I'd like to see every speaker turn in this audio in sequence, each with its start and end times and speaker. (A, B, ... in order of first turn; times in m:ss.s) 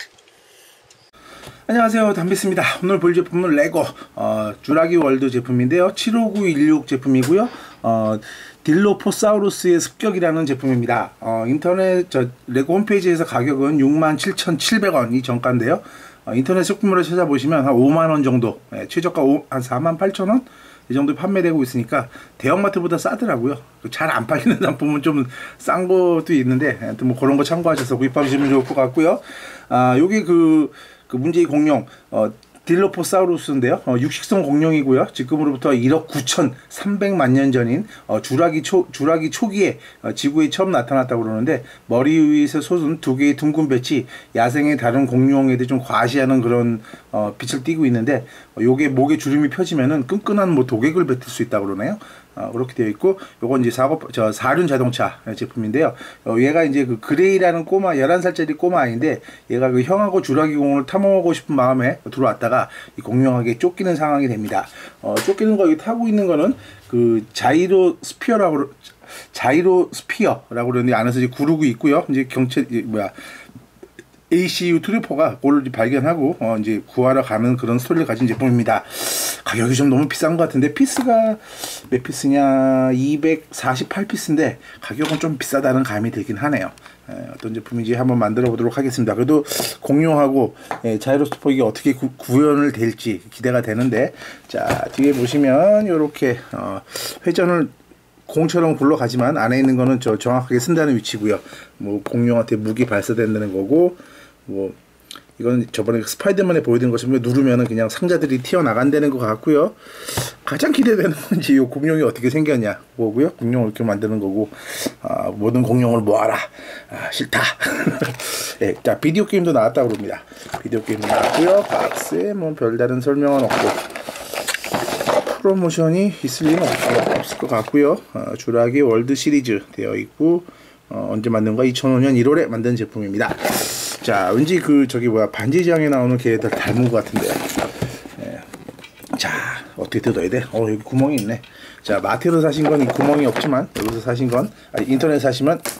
0:01.7-1:13.1 A
1:14.3-1:37.7 A
1:38.3-1:44.8 A
1:45.4-2:03.8 A
2:05.1-2:18.5 A
2:19.1-2:25.6 A